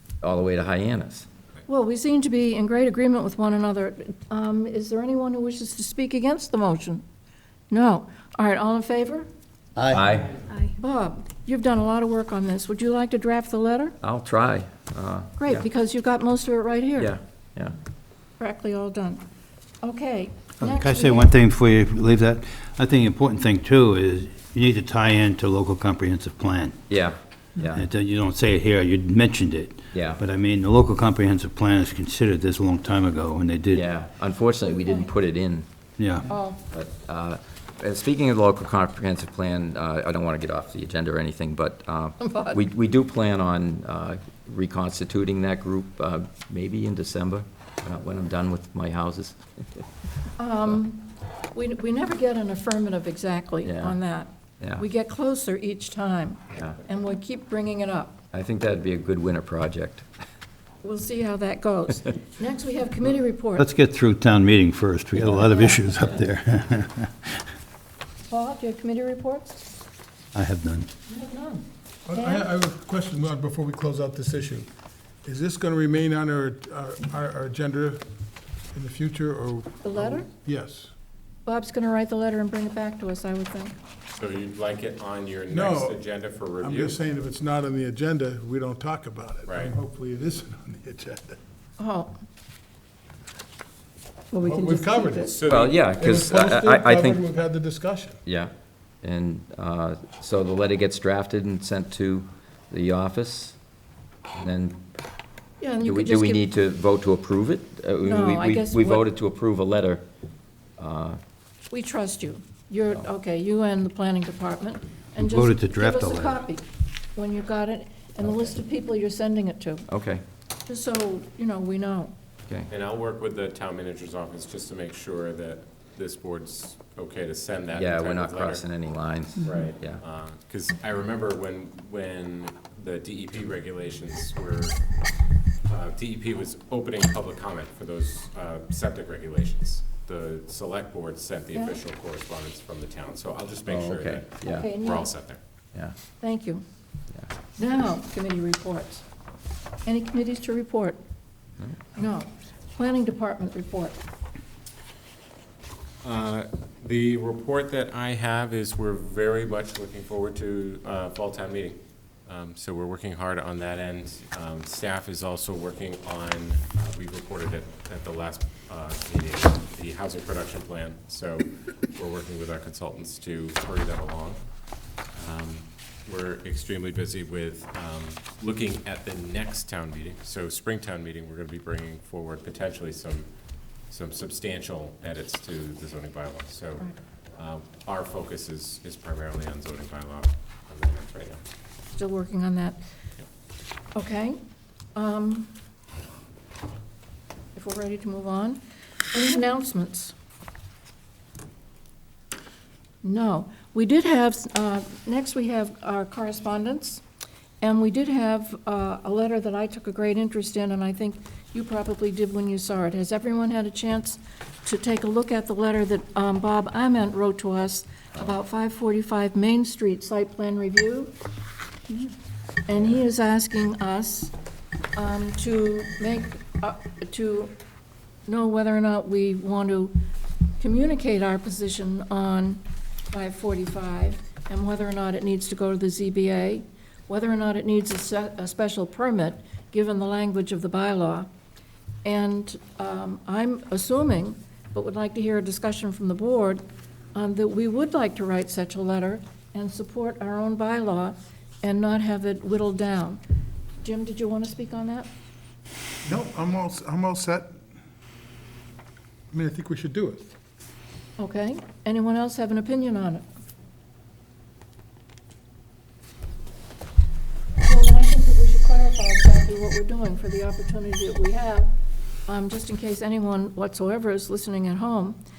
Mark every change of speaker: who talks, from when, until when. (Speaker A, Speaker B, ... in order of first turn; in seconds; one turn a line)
Speaker A: 0.2-1.3
Speaker B: 1.7-7.0
Speaker B: 7.7-9.3
Speaker C: 9.8-10.0
Speaker A: 9.9-10.4
Speaker B: 10.7-13.9
Speaker A: 14.0-15.7
Speaker B: 15.4-17.1
Speaker A: 17.0-17.7
Speaker B: 18.4-19.2
Speaker B: 19.8-21.3
Speaker C: 20.6-26.8
Speaker A: 26.9-27.8
Speaker C: 27.7-33.9
Speaker A: 29.9-30.2
Speaker A: 33.7-35.6
Speaker B: 34.7-35.1
Speaker C: 36.0-36.3
Speaker B: 36.3-36.6
Speaker A: 36.7-49.4
Speaker B: 42.2-42.6
Speaker B: 50.4-58.2
Speaker A: 53.6-54.0
Speaker A: 58.3-60.0
Speaker B: 60.8-63.7
Speaker C: 63.6-67.5
Speaker B: 68.2-69.6
Speaker C: 70.3-70.9
Speaker B: 71.1-71.6
Speaker D: 72.0-74.7
Speaker B: 72.1-72.5
Speaker D: 75.2-78.0
Speaker D: 78.7-80.9
Speaker B: 79.8-80.3
Speaker B: 81.4-83.7
Speaker E: 84.1-87.0
Speaker D: 85.5-86.0
Speaker D: 86.6-91.4
Speaker E: 89.5-89.7
Speaker B: 91.8-92.1
Speaker B: 94.3-95.3
Speaker D: 94.4-95.4
Speaker E: 95.3-95.8
Speaker A: 95.5-97.2
Speaker D: 95.9-98.2
Speaker A: 98.2-98.5
Speaker A: 99.0-103.6
Speaker A: 104.3-104.8
Speaker B: 105.6-106.5
Speaker A: 105.8-110.0
Speaker B: 108.0-109.1
Speaker A: 110.8-111.2
Speaker B: 111.7-119.8
Speaker C: 115.2-116.4
Speaker A: 119.9-120.2
Speaker B: 120.7-122.1
Speaker E: 122.7-128.6
Speaker A: 127.7-130.0
Speaker E: 129.4-134.8
Speaker E: 135.7-145.4
Speaker B: 141.5-141.8
Speaker A: 143.7-144.7
Speaker B: 144.4-145.1
Speaker B: 146.2-146.6
Speaker B: 147.6-149.0
Speaker B: 149.8-151.0
Speaker B: 151.9-154.0
Speaker E: 156.0-174.4
Speaker E: 175.1-183.3
Speaker E: 183.9-191.4
Speaker B: 191.9-192.8
Speaker B: 193.9-194.4
Speaker B: 194.9-195.5
Speaker B: 197.5-198.6
Speaker B: 199.1-200.1
Speaker B: 203.0-207.0
Speaker B: 207.6-221.1
Speaker B: 222.7-224.3
Speaker B: 224.9-227.5
Speaker B: 228.2-229.9
Speaker B: 230.6-241.3
Speaker B: 242.0-246.6
Speaker B: 247.1-253.2
Speaker B: 253.8-255.1
Speaker D: 256.0-257.6
Speaker D: 259.3-260.2
Speaker B: 261.2-263.2
Speaker B: 267.6-271.7
Speaker B: 272.3-275.2